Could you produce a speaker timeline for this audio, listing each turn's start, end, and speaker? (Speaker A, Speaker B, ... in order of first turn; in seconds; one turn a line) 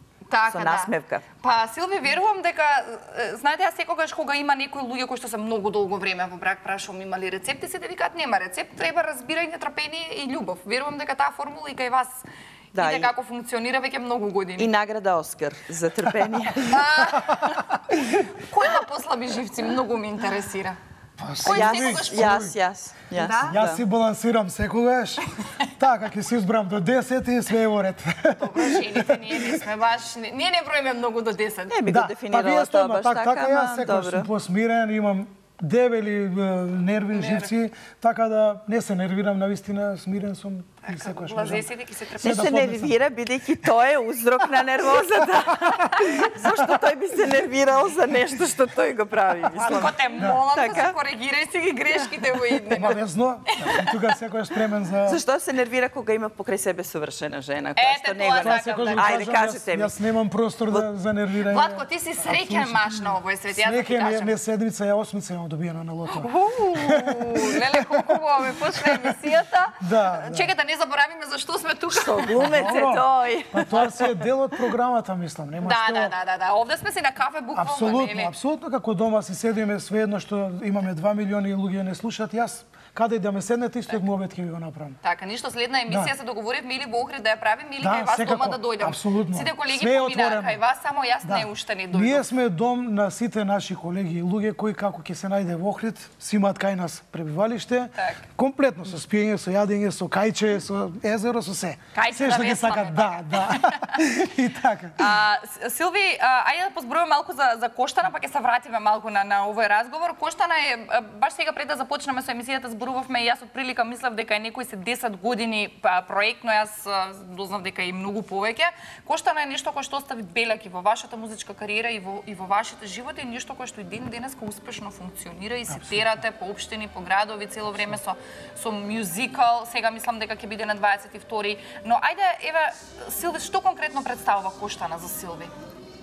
Speaker A: 0.3-12.2
Speaker B: 0.5-1.2
Speaker A: 12.7-14.7
Speaker B: 12.7-13.1
Speaker B: 14.6-16.8
Speaker A: 16.6-17.7
Speaker A: 18.3-20.8
Speaker C: 21.2-22.5
Speaker A: 21.4-22.5
Speaker B: 21.4-23.8
Speaker A: 23.2-23.6
Speaker C: 23.4-29.6
Speaker A: 28.4-31.7
Speaker B: 31.7-34.3
Speaker C: 31.9-41.7
Speaker A: 37.1-37.5
Speaker A: 40.9-42.6
Speaker C: 42.2-43.0
Speaker B: 42.2-51.0
Speaker C: 45.8-46.4
Speaker A: 49.6-53.0
Speaker C: 50.1-50.4
Speaker C: 52.7-55.2
Speaker A: 53.5-54.0
Speaker B: 55.0-59.9
Speaker A: 57.8-59.2
Speaker C: 58.4-68.2
Speaker A: 61.5-64.3
Speaker A: 66.1-72.5
Speaker C: 68.8-69.1
Speaker C: 69.8-70.5
Speaker B: 71.9-74.0
Speaker C: 72.2-76.1
Speaker A: 75.6-78.3
Speaker C: 77.5-85.0
Speaker A: 85.0-92.3
Speaker C: 85.9-86.1
Speaker C: 87.8-90.6
Speaker C: 91.2-105.2
Speaker A: 101.9-104.0
Speaker A: 105.0-135.5
Speaker C: 125.7-126.1